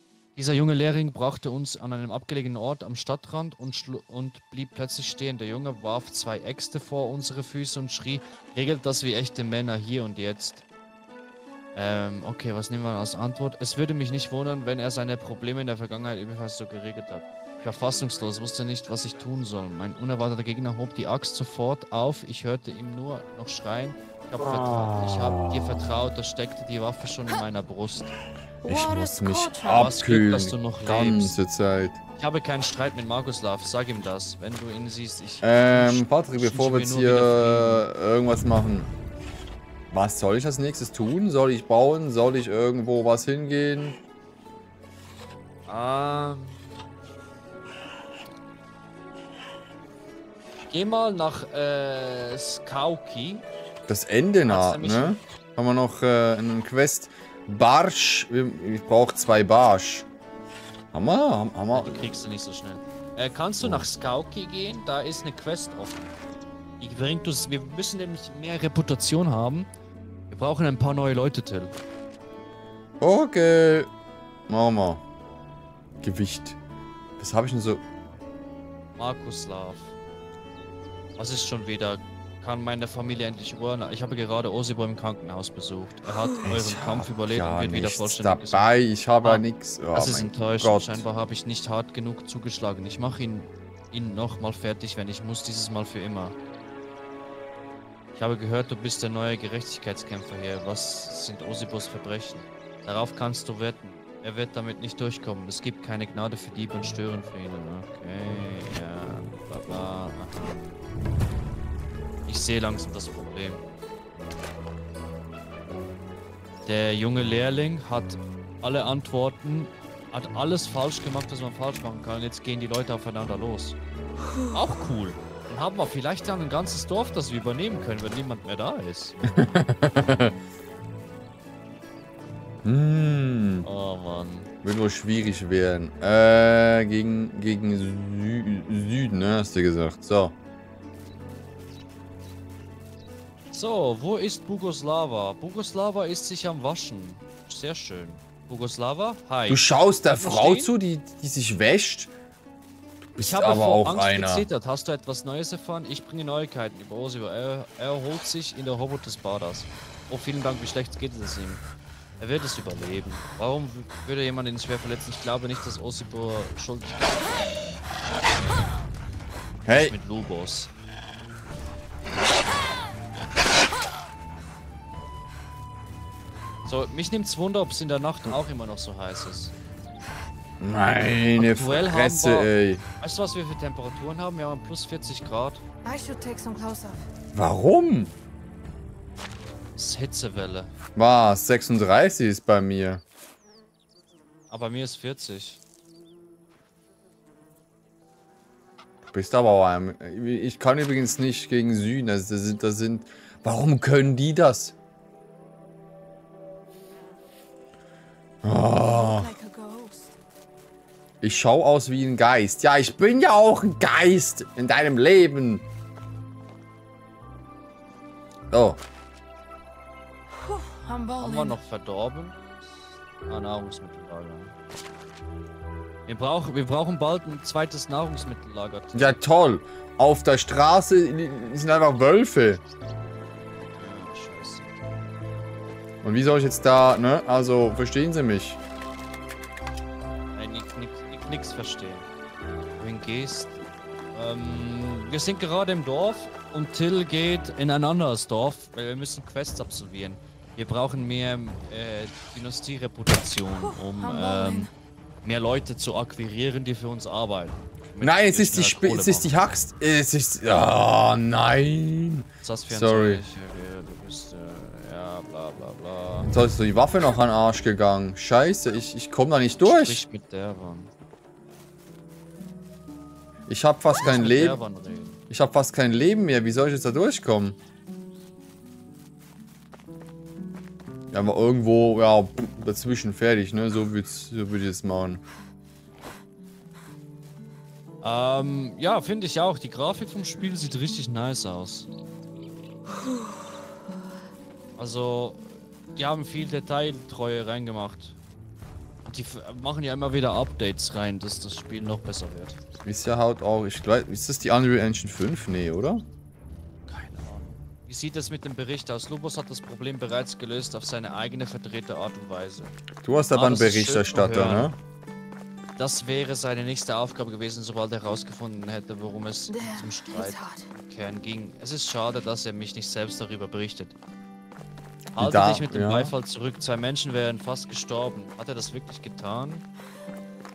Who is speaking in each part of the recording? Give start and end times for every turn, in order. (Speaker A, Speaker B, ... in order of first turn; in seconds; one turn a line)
Speaker A: 0.3-10.7
Speaker A: 11.7-28.1
Speaker B: 24.4-25.9
Speaker C: 28.6-29.9
Speaker B: 28.6-32.0
Speaker A: 29.7-31.4
Speaker A: 32.2-37.9
Speaker B: 35.4-38.9
Speaker B: 39.9-44.0
Speaker A: 45.7-46.7
Speaker A: 50.7-53.5
Speaker B: 53.9-60.1
Speaker A: 54.4-55.2
Speaker B: 60.9-62.1
Speaker A: 61.7-66.2
Speaker B: 63.6-63.9
Speaker A: 66.8-69.7
Speaker A: 70.3-71.8
Speaker B: 73.0-73.9
Speaker B: 74.5-75.0
Speaker B: 76.0-76.6
Speaker B: 77.2-77.8
Speaker A: 79.0-80.0
Speaker A: 81.2-88.7
Speaker B: 86.4-91.0
Speaker A: 89.2-96.3
Speaker A: 98.2-110.8
Speaker A: 112.2-113.6
Speaker A: 116.7-123.8
Speaker A: 124.5-129.2
Speaker B: 129.2-130.3
Speaker B: 132.6-133.7
Speaker A: 133.6-134.5
Speaker B: 134.6-140.3
Speaker A: 143.5-150.7
Speaker B: 149.5-152.1
Speaker B: 153.2-154.5
Speaker A: 153.2-161.7
Speaker A: 162.2-167.5
Speaker B: 169.7-169.9
Speaker A: 169.7-170.7
Speaker A: 176.7-179.5
Speaker B: 180.6-182.8
Speaker A: 181.4-185.6
Speaker C: 185.8-187.0
Speaker B: 187.3-188.1
Speaker A: 189.8-190.7
Speaker B: 190.9-193.0
Speaker A: 194.5-195.6
Speaker B: 199.1-204.8
Speaker B: 208.4-209.3
Speaker C: 208.7-210.2
Speaker B: 211.2-215.6
Speaker B: 218.5-218.8
Speaker C: 220.4-221.6
Speaker A: 221.2-224.6
Speaker A: 226.1-229.2
Speaker B: 228.9-232.6
Speaker A: 233.7-234.9
Speaker B: 236.0-238.6
Speaker A: 240.3-242.1
Speaker A: 242.8-254.7
Speaker C: 253.6-254.7
Speaker A: 255.2-259.3
Speaker B: 258.0-263.2
Speaker A: 262.4-266.3
Speaker B: 266.3-270.0
Speaker A: 269.6-270.9
Speaker B: 273.5-274.6
Speaker A: 274.0-275.2
Speaker B: 275.3-277.6
Speaker B: 281.1-285.2
Speaker A: 288.0-291.9
Speaker A: 294.8-298.2
Speaker A: 299.1-302.6
Speaker B: 302.9-306.1
Speaker A: 306.9-312.8
Speaker B: 313.0-314.8
Speaker A: 313.3-314.7
Speaker A: 315.8-324.0
Speaker C: 319.5-320.7
Speaker A: 325.1-329.6
Speaker B: 325.2-326.1